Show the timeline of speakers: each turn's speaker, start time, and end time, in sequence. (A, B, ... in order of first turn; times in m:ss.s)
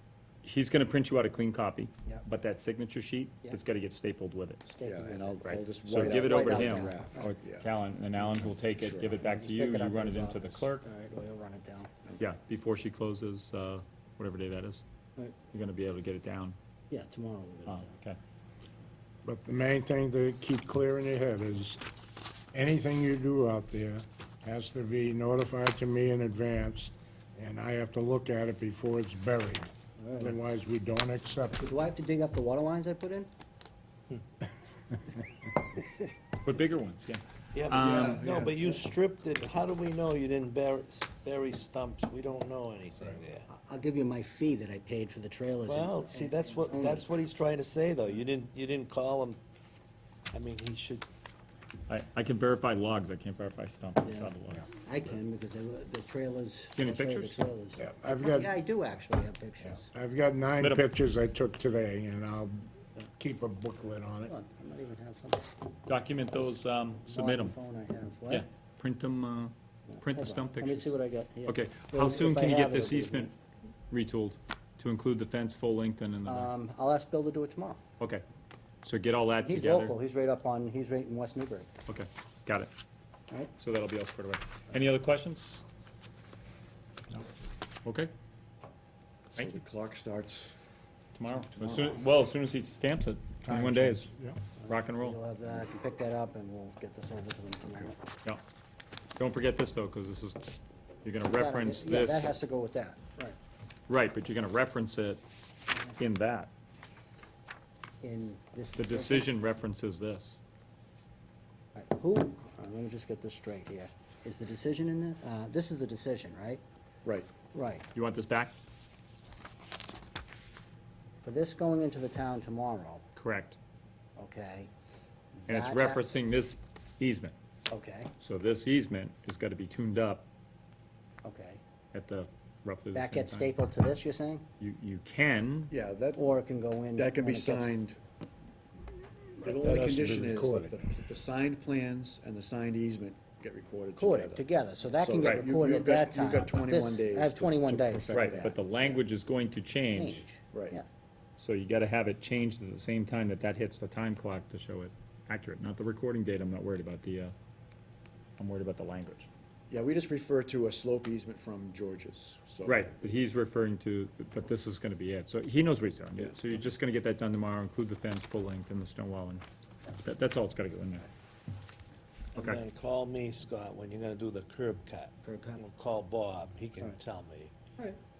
0:00.4-0:04.6 A
0:04.7-0:07.3 B
0:04.8-0:07.7 C
0:05.4-0:10.8 A
0:08.2-0:09.2 C
0:09.2-0:11.9 B
0:12.2-0:14.8 A
0:15.5-0:16.6 A
0:16.9-0:17.9 B
0:17.7-0:18.2 A
0:19.2-0:21.8 D
0:22.5-0:31.6 D
0:30.0-0:30.3 B
0:31.6-0:33.3 B
0:36.4-0:38.2 A
0:37.5-0:43.5 E
0:37.7-0:38.4 C
0:43.5-0:47.0 B
0:45.6-0:49.4 E
0:50.3-0:51.1 E
0:51.9-0:54.7 A
0:54.0-0:59.9 B
0:56.8-0:57.4 A
0:57.8-0:58.6 D
0:59.7-1:04.3 D
1:00.6-1:00.8 A
1:04.2-1:05.5 B
1:05.9-1:07.6 A
1:07.0-1:08.4 B
1:08.3-1:10.9 A
1:09.9-1:13.3 B
1:11.4-1:13.3 A
1:13.9-1:16.5 A
1:16.2-1:17.8 B
1:18.8-1:20.0 A
1:19.4-1:21.7 B
1:21.9-1:22.7 A
1:23.6-1:25.6 A
1:27.8-1:28.1 A
1:29.3-1:30.5 C
1:31.1-1:34.1 A
1:31.3-1:32.0 C
1:33.4-1:34.4 D
1:34.6-1:38.1 B
1:34.6-1:35.2 A
1:39.2-1:40.5 A
1:41.0-1:42.3 A
1:41.3-1:43.4 B
1:43.9-1:45.2 A
1:46.0-1:46.5 A
1:48.0-1:49.3 B
1:48.8-1:50.4 A
1:51.7-1:56.6 B
1:57.5-1:57.8 B
1:57.9-1:58.5 A
2:01.2-2:03.0 B
2:03.2-2:03.6 A
2:04.2-2:04.7 B
2:05.4-2:06.0 B
2:05.5-2:07.3 A
2:07.7-2:08.1 B
2:08.2-2:10.2 A
2:11.2-2:11.6 B
2:11.9-2:13.5 A
2:12.9-2:14.5 B
2:14.6-2:15.7 A
2:15.7-2:16.4 C
2:16.2-2:17.8 B
2:16.9-2:18.0 C
2:19.4-2:28.6 C
2:19.4-2:20.7 D
2:24.0-2:28.4 B
2:25.2-2:25.4 A
2:28.1-2:30.2 A
2:29.9-2:30.8 B
2:30.5-2:30.8 C
2:31.4-2:37.3 A
2:38.4-2:39.3 A
2:39.7-2:42.9 C
2:42.6-2:49.4 A
2:50.0-2:51.1 A
2:52.3-2:52.6 A
2:52.3-2:57.5 E
2:55.2-2:55.6 B